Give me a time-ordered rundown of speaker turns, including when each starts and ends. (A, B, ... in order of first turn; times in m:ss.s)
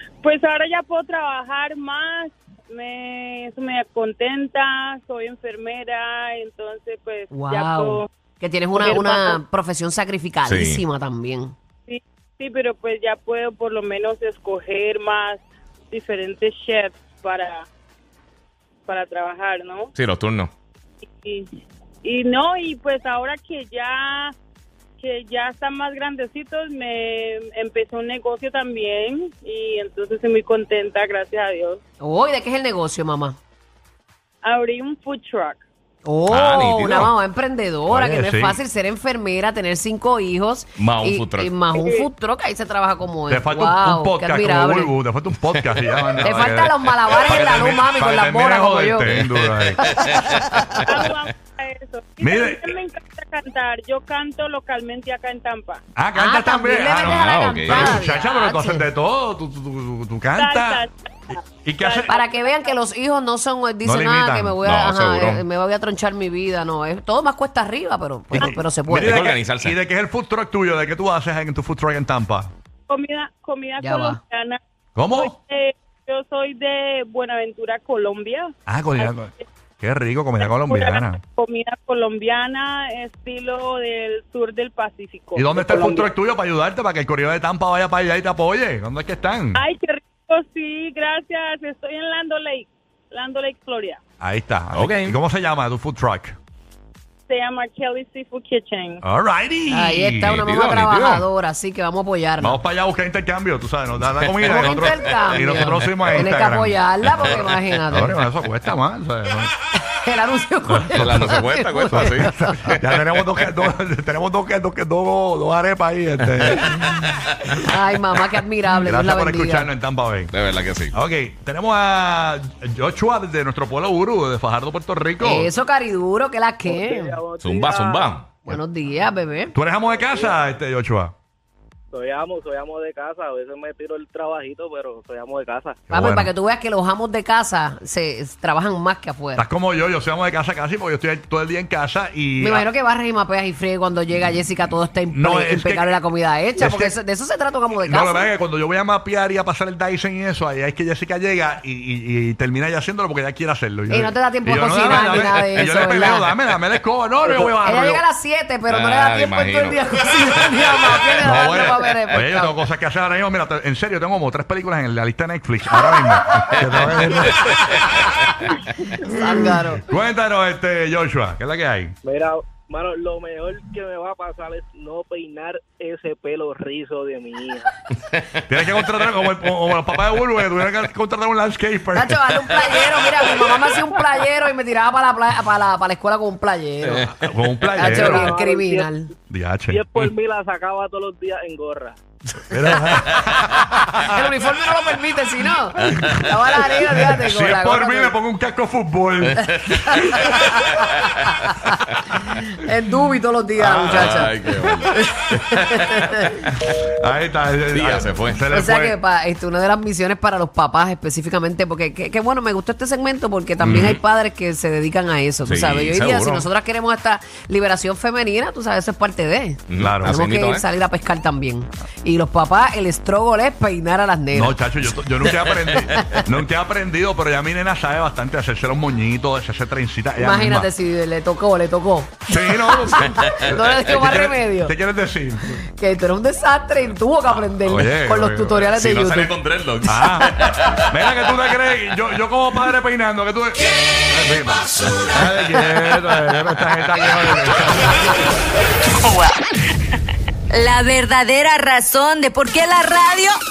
0:00.2-0:08.1 A
0:07.3-0:11.5 B
0:08.7-0:09.4 A
0:10.4-0:10.8 C
0:11.9-0:17.7 A
0:18.9-0:19.9 A
0:20.0-0:20.5 C
0:21.2-0:21.5 A
0:22.0-0:24.4 A
0:25.0-0:31.8 A
0:32.0-0:33.4 B
0:34.4-0:35.6 A
0:36.0-0:45.0 B
0:36.3-0:37.1 C
0:37.9-0:38.6 D
0:40.8-0:41.5 C
0:41.8-0:42.1 A
0:43.3-0:50.5 D
0:46.2-0:49.2 B
0:49.8-0:51.0 B
0:50.0-0:50.6 C
0:50.8-0:55.8 A
0:52.2-0:52.8 D
0:56.0-1:02.2 D
0:56.2-0:58.9 B
0:57.0-0:58.0 C
1:00.4-1:00.9 A
1:01.8-1:02.7 A
1:02.1-1:09.2 B
1:03.8-1:04.6 D
1:04.6-1:05.4 C
1:08.4-1:12.5 D
1:09.0-1:09.8 C
1:12.9-1:14.6 A
1:13.8-1:14.2 B
1:15.0-1:15.4 D
1:15.1-1:19.2 A
1:18.7-1:21.2 D
1:20.4-1:26.1 A
1:25.4-1:29.6 D
1:29.5-1:34.0 A
1:34.2-1:36.4 D
1:34.7-1:35.2 C
1:37.3-1:39.0 A
1:39.0-1:40.4 D
1:39.7-1:42.6 B
1:40.4-1:41.3 C
1:42.4-1:49.5 D
1:44.4-1:48.2 B
1:49.8-1:52.8 B
1:50.7-1:57.5 D
1:50.9-1:52.3 C
1:56.6-1:56.8 C
1:57.6-1:59.7 B
1:58.7-2:00.3 D
2:00.3-2:01.0 C
2:00.9-2:05.5 D
2:05.2-2:07.2 B
2:06.7-2:08.2 E
2:07.4-2:08.3 C
2:08.4-2:09.6 B
2:09.5-2:11.1 D
2:09.9-2:10.4 E
2:11.9-2:15.8 E
2:15.9-2:16.3 D
2:15.9-2:19.4 B
2:19.4-2:22.7 D
2:22.4-2:28.3 B
2:25.1-2:26.0 D
2:26.6-2:27.0 D
2:27.8-2:38.0 D
2:33.9-2:36.3 B
2:37.3-2:37.5 E
2:37.6-2:42.6 B
2:38.7-2:41.0 C
2:41.2-2:47.8 D
2:48.9-2:49.8 B
2:49.8-2:52.0 D
2:52.0-2:57.8 E
2:58.5-3:02.2 D
3:02.0-3:07.1 B
3:07.2-3:08.4 D
3:07.7-3:09.1 B
3:07.8-3:08.9 E
3:09.3-3:10.2 D
3:09.7-3:12.0 E
3:12.4-3:14.3 D
3:14.1-3:18.2 B
3:15.8-3:20.7 D
3:19.5-3:24.4 B
3:23.6-3:24.9 D
3:23.8-3:26.1 C
3:25.2-3:26.4 B
3:26.7-3:29.0 D
3:27.7-3:28.4 C
3:28.5-3:44.6 B
3:33.6-3:34.0 C
3:35.4-3:36.5 C
3:39.7-3:40.6 C
3:39.8-3:40.2 D
3:44.3-3:50.7 D
3:45.9-3:46.2 B
3:50.2-3:54.7 B
3:52.3-3:55.6 D
3:55.7-3:59.3 B
3:57.6-3:58.6 D
3:58.7-4:00.9 C
3:59.8-4:08.2 D
4:10.5-4:13.4 F